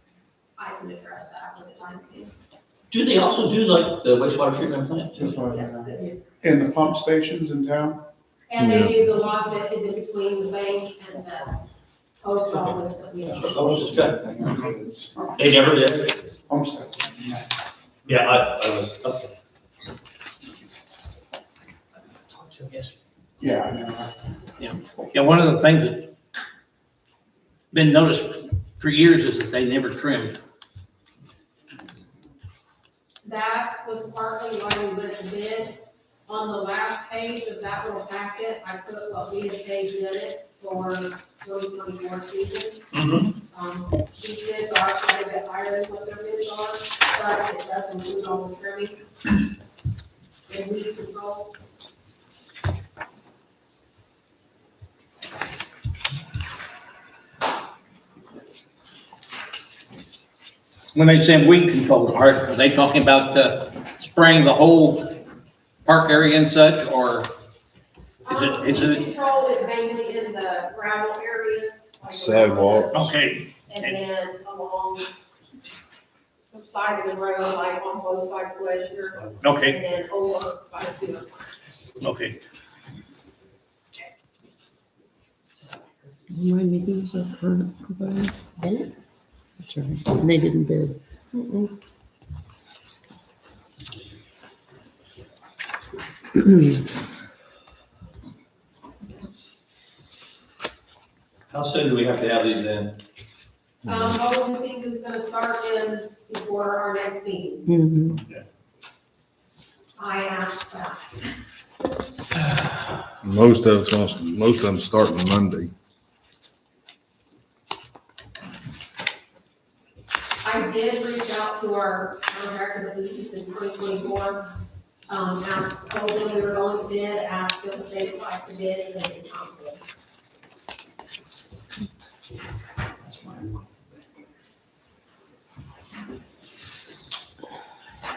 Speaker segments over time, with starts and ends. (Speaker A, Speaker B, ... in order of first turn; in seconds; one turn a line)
Speaker A: 0.6-2.3
Speaker B: 2.9-5.4
Speaker C: 5.2-8.0
Speaker A: 5.3-6.2
Speaker A: 8.5-11.6
Speaker D: 8.6-8.9
Speaker A: 12.2-13.7
Speaker B: 12.5-12.8
Speaker C: 13.2-15.8
Speaker B: 13.3-14.2
Speaker B: 15.4-16.3
Speaker C: 16.5-17.5
Speaker B: 18.1-19.3
Speaker E: 22.4-22.9
Speaker C: 23.4-24.4
Speaker E: 24.6-26.1
Speaker E: 27.7-30.4
Speaker A: 33.2-42.8
Speaker B: 42.9-43.3
Speaker A: 43.4-49.0
Speaker A: 50.5-51.5
Speaker E: 61.0-65.1
Speaker E: 65.8-67.3
Speaker A: 68.2-73.1
Speaker E: 68.3-69.0
Speaker D: 72.1-73.0
Speaker E: 72.9-73.9
Speaker A: 73.7-75.1
Speaker A: 76.5-81.6
Speaker E: 79.4-79.8
Speaker E: 82.0-82.4
Speaker F: 86.3-88.4
Speaker F: 89.6-91.0
Speaker F: 96.4-96.7
Speaker B: 101.5-103.0
Speaker A: 103.8-107.8
Speaker D: 103.9-104.2
Speaker F: 107.7-108.2
Speaker A: 110.0-111.2
Speaker D: 113.2-115.7
Speaker A: 120.4-124.5
Speaker A: 125.1-129.8